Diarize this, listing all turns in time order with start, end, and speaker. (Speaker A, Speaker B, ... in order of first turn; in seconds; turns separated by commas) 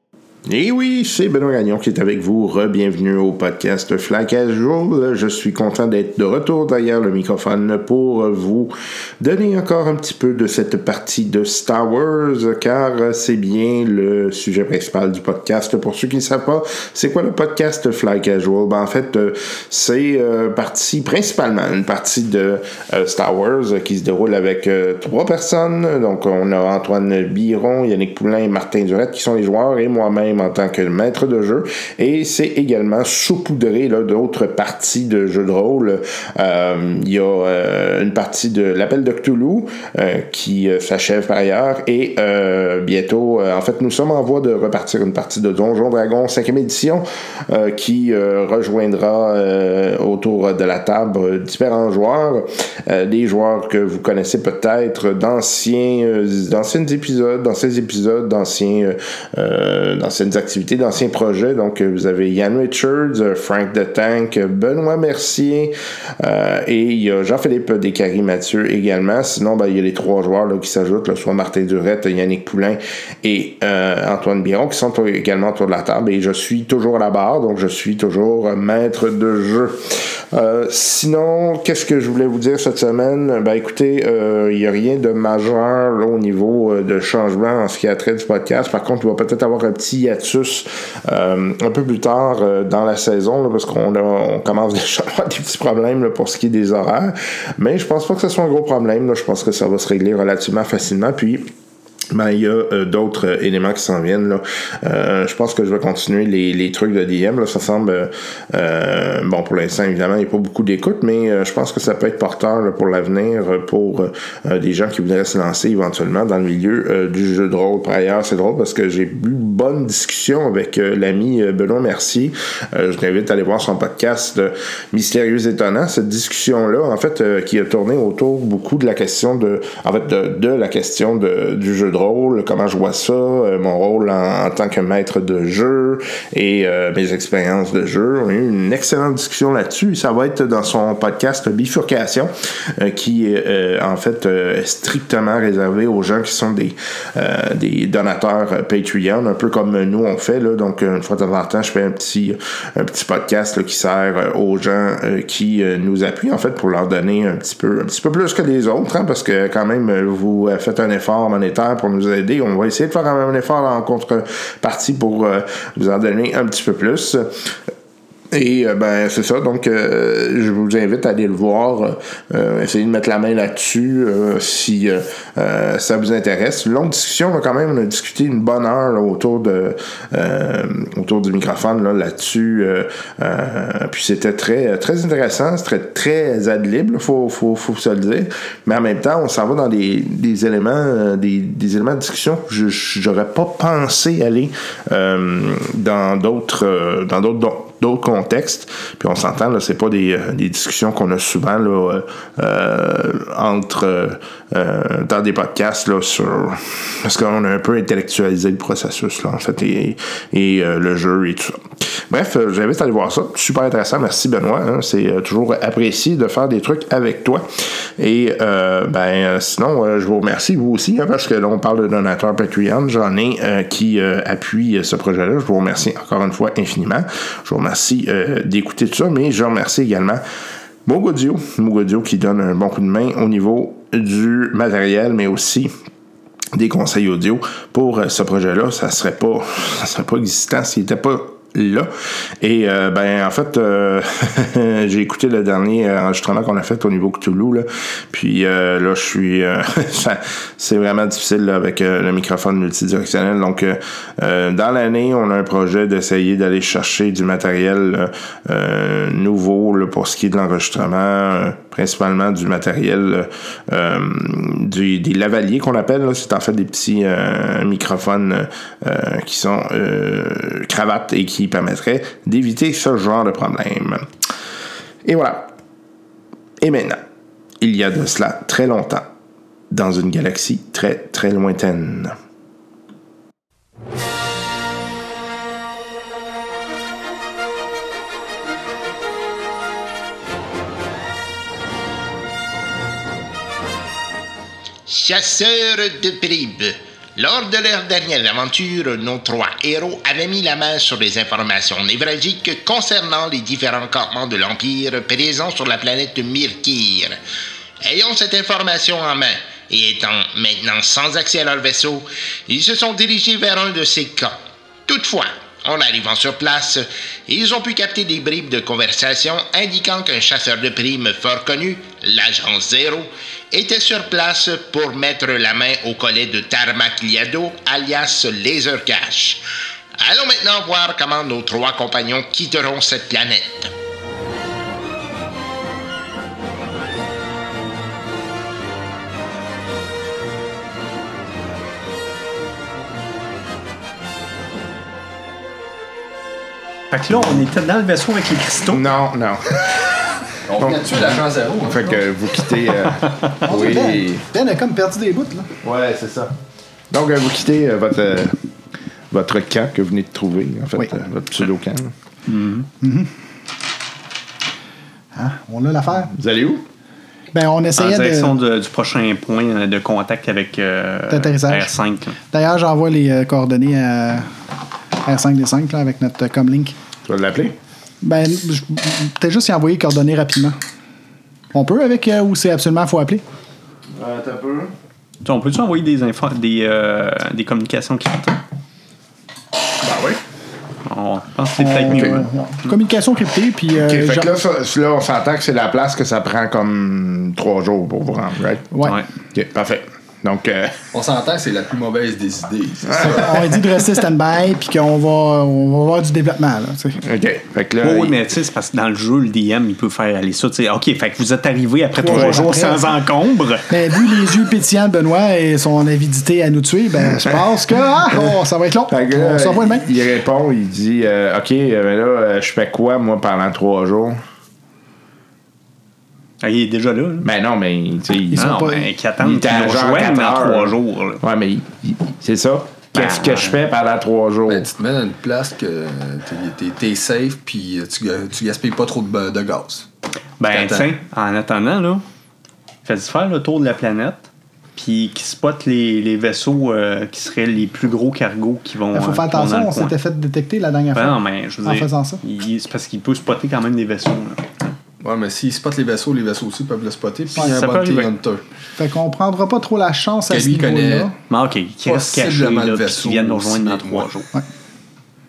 Speaker A: 0.4-101.5, Speaker A: 102.1-167.5, Speaker A: 168.3-230.2, Speaker A: 230.8-235.7, Speaker A: 236.5-274.1, Speaker A: 275.0-275.5, Speaker A: 276.6-277.0, Speaker A: 277.6-279.1, Speaker A: 279.7-282.1, Speaker B: 294.9-307.2, Speaker B: 307.8-329.4, Speaker B: 330.0-333.7, Speaker C: 346.9-348.9, Speaker A: 348.7-349.6, Speaker D: 350.4-352.0, Speaker A: 350.5-354.2, Speaker E: 353.4-355.5, Speaker A: 355.6-356.3, Speaker A: 356.9-358.4, Speaker A: 359.1-361.9, Speaker C: 362.3-362.7, Speaker E: 362.8-363.1, Speaker E: 365.1-366.1, Speaker A: 366.1-366.6, Speaker E: 367.3-368.3, Speaker C: 367.8-372.2, Speaker E: 371.1-371.7, Speaker E: 372.3-374.3, Speaker E: 375.0-376.8, Speaker A: 377.0-377.6, Speaker E: 378.0-380.6, Speaker E: 381.5-383.2, Speaker A: 383.9-384.7, Speaker C: 385.2-388.4, Speaker A: 389.8-390.2, Speaker C: 390.9-392.3, Speaker E: 391.5-394.3, Speaker A: 393.8-398.7, Speaker E: 398.7-399.0, Speaker A: 399.3-400.9, Speaker D: 400.9-403.9, Speaker E: 403.1-407.0, Speaker A: 407.0-408.2, Speaker C: 407.8-413.7, Speaker E: 411.9-412.9, Speaker E: 413.7-419.9, Speaker A: 418.1-418.3, Speaker A: 418.9-424.2, Speaker C: 426.4-427.3, Speaker A: 427.2-428.6, Speaker E: 428.3-428.9, Speaker C: 428.4-431.2, Speaker A: 429.2-434.7, Speaker C: 432.9-433.6, Speaker D: 434.5-439.9, Speaker C: 440.4-442.0, Speaker D: 440.5-440.9, Speaker C: 442.8-450.0, Speaker E: 448.9-452.2, Speaker C: 450.9-454.8, Speaker D: 455.0-458.4, Speaker C: 457.3-458.1, Speaker E: 458.8-461.1, Speaker D: 460.3-461.1, Speaker C: 461.3-464.3, Speaker D: 461.8-464.1